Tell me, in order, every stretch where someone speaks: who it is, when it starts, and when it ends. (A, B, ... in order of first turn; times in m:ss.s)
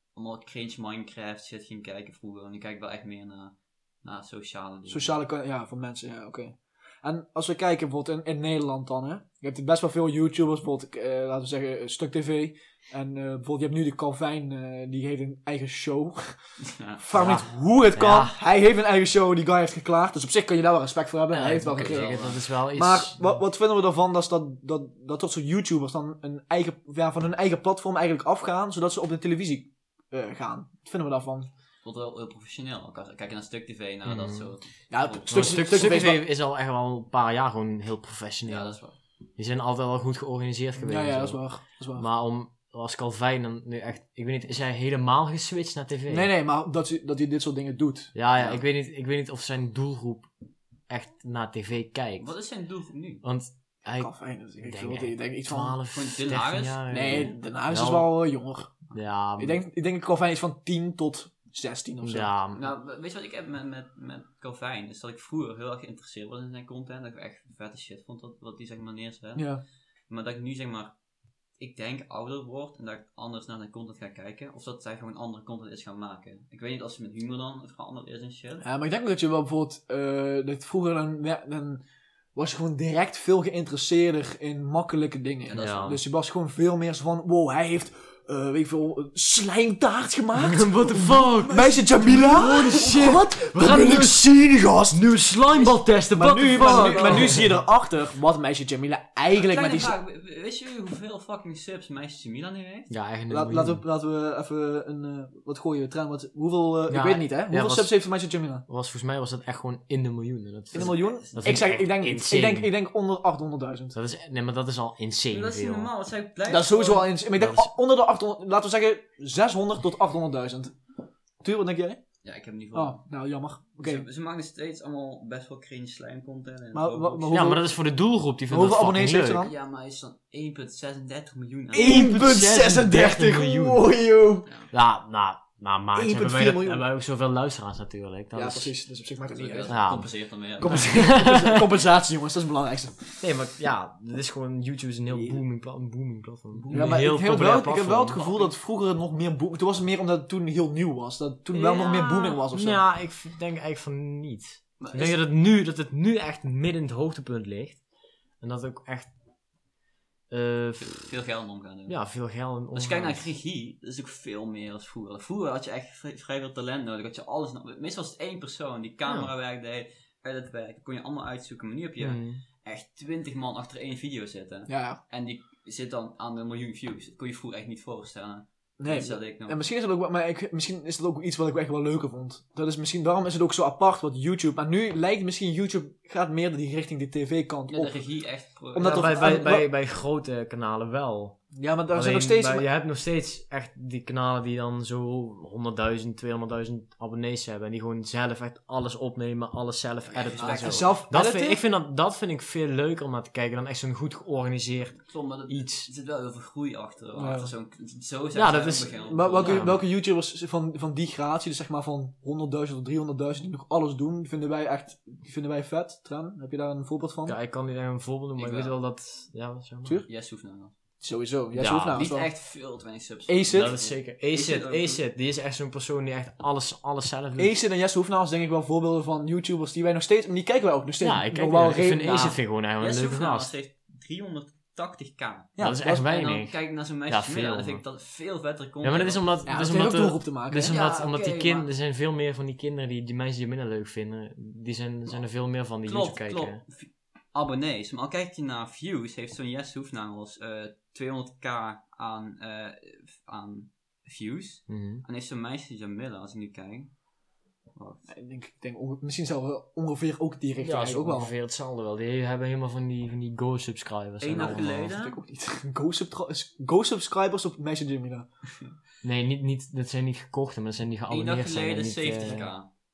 0:00.1-0:05.2 A
0:04.9-0:16.4 B
0:16.6-0:17.0 A
0:17.0-0:31.5 B
0:17.1-0:18.3 C
0:21.3-0:23.3 C
0:21.7-0:22.5 A
0:31.8-0:36.0 A
0:34.0-0:34.5 C
0:34.9-0:36.2 B
0:35.3-0:38.8 C
0:38.5-0:39.0 A
0:39.4-0:41.4 C
0:40.8-0:42.0 B
0:42.0-0:46.3 C
0:46.1-0:48.1 B
0:48.1-0:50.3 C
0:48.3-0:48.6 A
0:50.9-0:52.3 C
0:52.2-0:53.2 A
0:53.2-0:58.1 C
0:54.0-0:55.8 B
0:55.9-0:57.4 A
0:56.9-0:58.7 B
0:58.9-0:59.6 C
0:59.4-1:02.3 B
1:02.0-1:02.7 C
1:02.5-1:09.5 A
1:09.4-1:09.6 B
1:10.1-1:10.9 A
1:11.6-1:18.6 A
1:18.6-1:21.8 B
1:22.3-1:35.0 B
1:25.4-1:26.0 A
1:25.6-1:26.0 C
1:30.4-1:34.3 C
1:34.9-1:37.5 C
1:35.5-1:35.8 A
1:36.1-1:39.9 B
1:36.5-1:37.4 A
1:39.3-1:42.9 A
1:42.9-1:43.8 C
1:43.3-1:48.6 B
1:46.9-1:47.9 C
1:48.7-1:52.7 C
1:50.7-1:51.8 A
1:50.7-1:54.0 B
1:53.9-1:55.9 C
1:55.3-1:57.1 A
1:56.5-2:00.8 B
1:57.4-1:57.7 C
2:01.4-2:02.0 B
2:02.2-2:03.0 A
2:02.7-2:04.0 B
2:03.8-2:07.4 A
2:06.7-2:07.6 B
2:07.3-2:09.5 C
2:08.5-2:09.5 B
2:09.4-2:12.1 A
2:11.7-2:13.8 C
2:11.7-2:14.5 B
2:14.7-2:18.7 C
2:15.9-2:16.8 B
2:18.3-2:19.8 B
2:19.3-2:21.1 A
2:19.7-2:21.7 C
2:20.6-2:23.2 B
2:23.2-2:28.2 C
2:26.5-2:27.0 A
2:26.7-2:32.8 B
2:28.1-2:28.5 A
2:31.5-2:37.8 C
2:31.7-2:32.3 A
2:34.8-2:35.2 A
2:38.4-2:39.1 C
2:40.3-2:41.0 C
2:40.8-2:42.0 A
2:41.9-2:43.3 C
2:42.7-2:59.6 A
2:49.0-2:49.3 C
2:52.0-2:52.4 C
2:54.7-2:55.0 B
2:58.8-3:08.0 B
3:07.7-3:09.5 A
3:08.7-3:09.7 B
3:08.8-3:11.4 C
3:11.5-3:12.6 B
3:11.9-3:25.9 C
3:20.1-3:21.0 A
3:20.4-3:21.6 B
3:25.1-3:29.8 A
3:27.2-3:27.5 B
3:28.3-3:29.8 C
3:29.1-3:37.4 B
3:37.2-3:40.0 C
3:38.4-3:38.7 A
3:40.0-3:40.7 A
3:41.0-3:42.3 B
3:41.5-3:42.1 C
3:41.9-3:45.0 A
3:43.3-3:43.7 B
3:43.5-3:47.5 C
3:47.4-3:52.4 B
3:51.0-3:53.5 C
3:52.8-3:59.5 A
3:55.6-3:56.1 B
3:55.6-3:57.8 C
3:58.8-4:06.6 C
3:59.4-4:00.8 B
4:00.6-4:01.7 A
4:05.8-4:16.9 A
4:14.7-4:15.0 C
4:17.8-4:18.1 A
4:18.1-4:21.3 B
4:20.6-4:24.9 C
4:24.2-4:25.2 A
4:24.4-4:28.3 B
4:29.0-4:32.5 C
4:31.1-4:32.7 A